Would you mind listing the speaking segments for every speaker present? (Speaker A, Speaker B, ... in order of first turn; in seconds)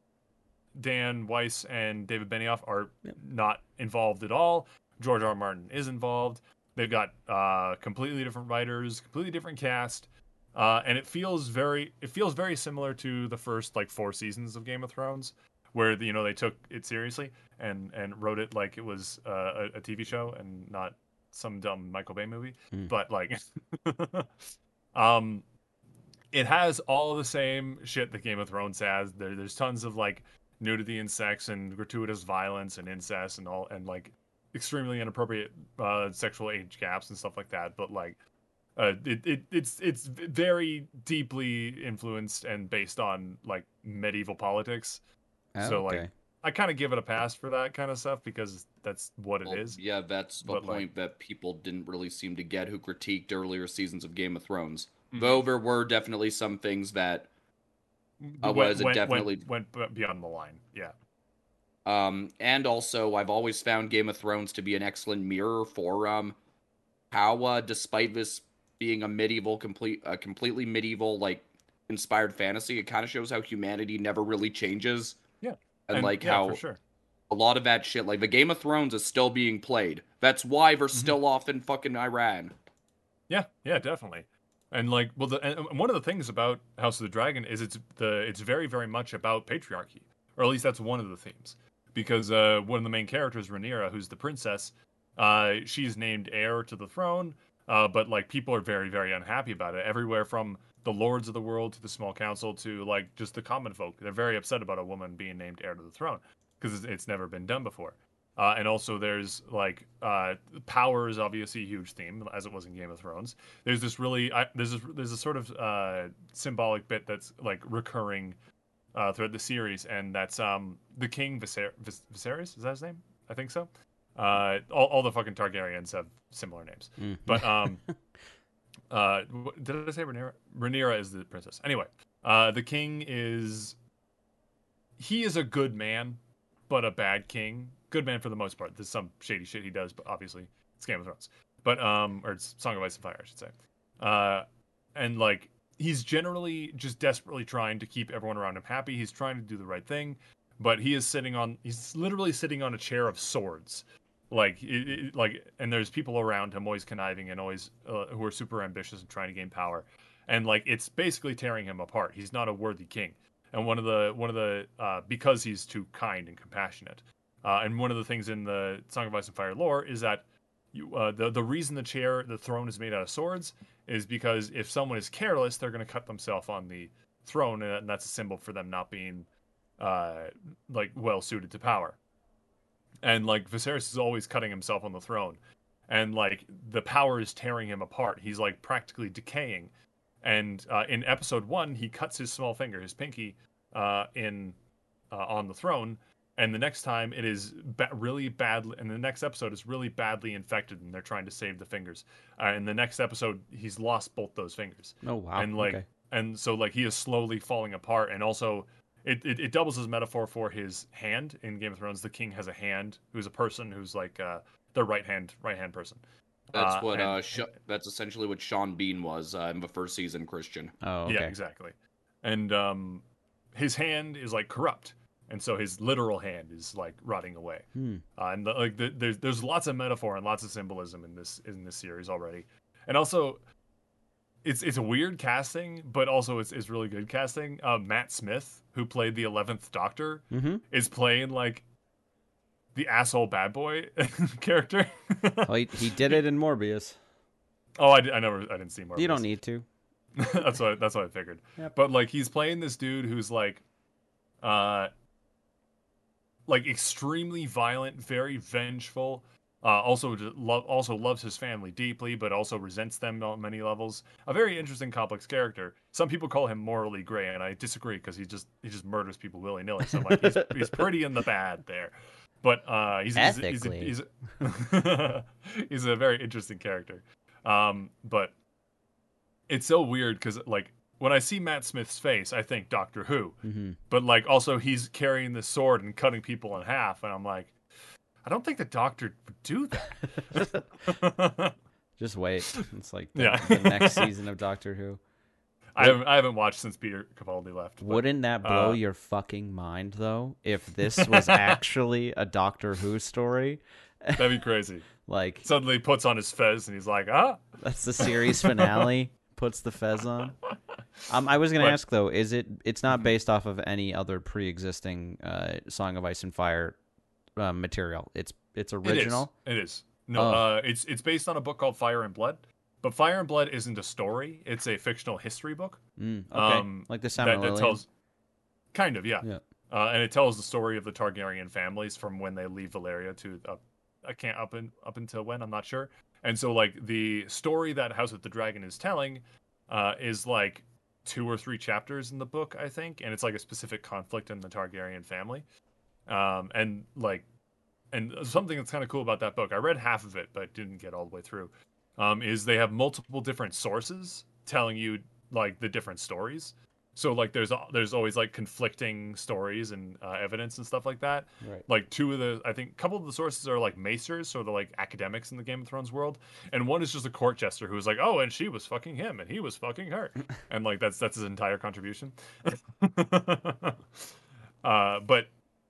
Speaker A: 0.7-24.4, 24.9-25.4, 26.3-38.2, 38.8-45.0, 45.6-49.8, 50.4-50.8, 55.1-55.4, 58.2-60.9, 75.4-76.8, 83.3-118.3, 118.9-127.8, 128.9-133.8, 135.0-179.3, 179.8-182.0, 183.0-189.7, 190.2-194.5, 195.1-217.2, 221.1-223.0, 223.5-227.7, 228.2-233.4, 234.4-241.6, 242.7-246.2, 247.8-249.3, 250.2-253.6, 254.4-254.9, 256.5-278.3, 279.5-283.4, 283.9-287.5, 288.2-291.5, 293.2-294.1, 295.7-298.8, 300.9-301.6, 304.2-304.9, 305.4-307.4, 308.0-308.9, 318.8-325.8, 326.3-327.9, 328.7-345.4, 346.1-347.2, 347.9-374.1, 374.6-375.3
Speaker B: 45.5-46.1, 127.0-127.9, 205.0-205.8, 220.8-221.3, 227.8-228.0, 240.3-240.6, 245.4-247.0, 248.9-249.6, 270.2-270.8, 273.1-273.9, 283.4-283.8, 292.0-295.0, 297.8-304.4, 305.1-305.4, 307.6-310.4, 311.1-316.8, 317.4-319.3, 320.1-320.5, 326.0-327.8
Speaker C: 49.5-57.3, 58.4-59.4, 61.8-66.3, 67.1-75.2, 75.9-76.6, 77.3-82.5, 216.5-220.7